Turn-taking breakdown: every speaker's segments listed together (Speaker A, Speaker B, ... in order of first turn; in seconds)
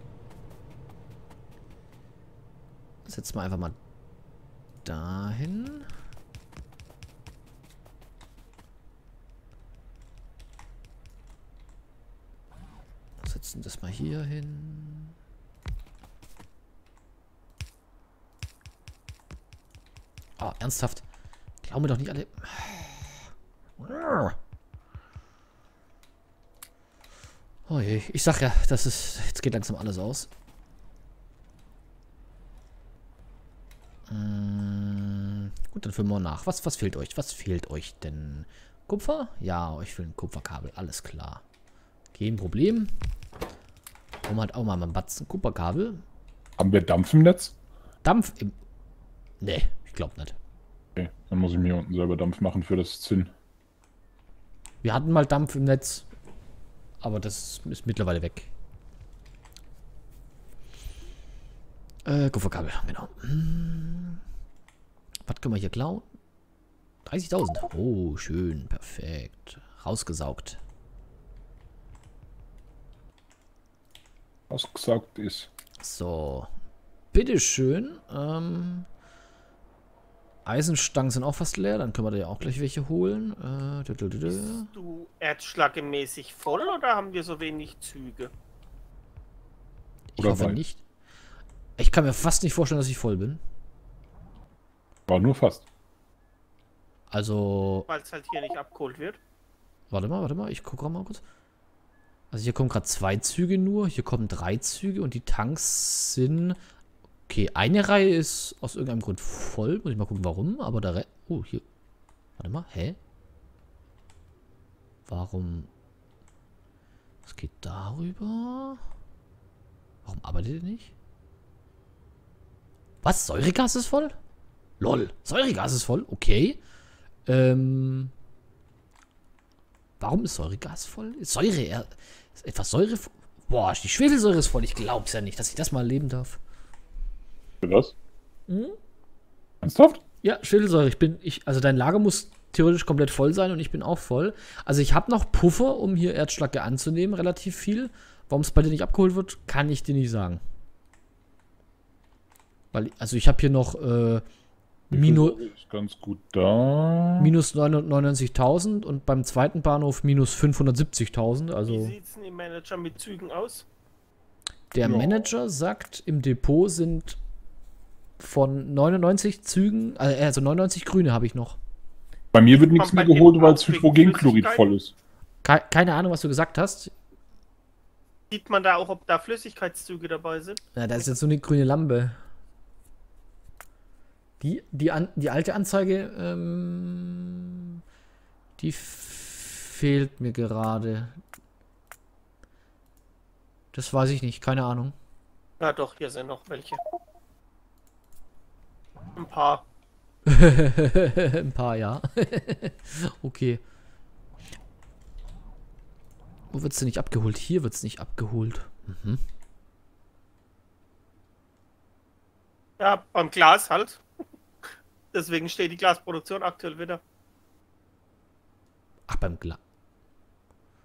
Speaker A: 3.0-3.8, 4.8-5.9, 13.2-15.1, 20.4-21.0, 21.6-24.4, 27.7-30.3, 34.1-41.4, 42.1-42.9, 44.2-46.0, 48.0-48.5, 49.4-50.4, 54.8-56.1, 57.0-58.5, 62.0-64.2, 65.2-66.1, 67.0-70.6, 75.8-76.5, 77.1-78.9, 80.5-84.7, 90.1-90.8, 91.8-93.4, 97.1-97.9, 99.9-101.2, 102.3-106.6, 107.3-111.6, 112.4-113.0, 115.1-115.7, 117.2-118.8, 120.0-120.9, 123.0-124.1, 124.8-126.6, 127.3-128.1, 130.0-136.4, 138.5-138.8, 140.2-150.4, 152.7-154.2, 154.9-155.4, 157.2-161.9, 164.7-167.2, 168.2-171.6, 175.4-176.9, 180.7-182.2, 184.4-187.8, 188.6-191.2, 193.7-194.9, 200.3-203.6, 206.5-209.2, 219.1-219.6
Speaker B: 46.6-47.5, 51.0-53.3, 74.5-75.5, 90.2-90.6, 95.1-95.6, 137.6-137.9, 139.6-140.0, 154.9-157.3, 164.8-165.2, 172.3-174.9
Speaker C: 84.3-88.3, 97.9-99.2, 161.7-163.7, 172.8-174.6, 178.3-180.6, 195.6-196.8, 199.2-199.6, 212.8-214.0, 215.1-217.0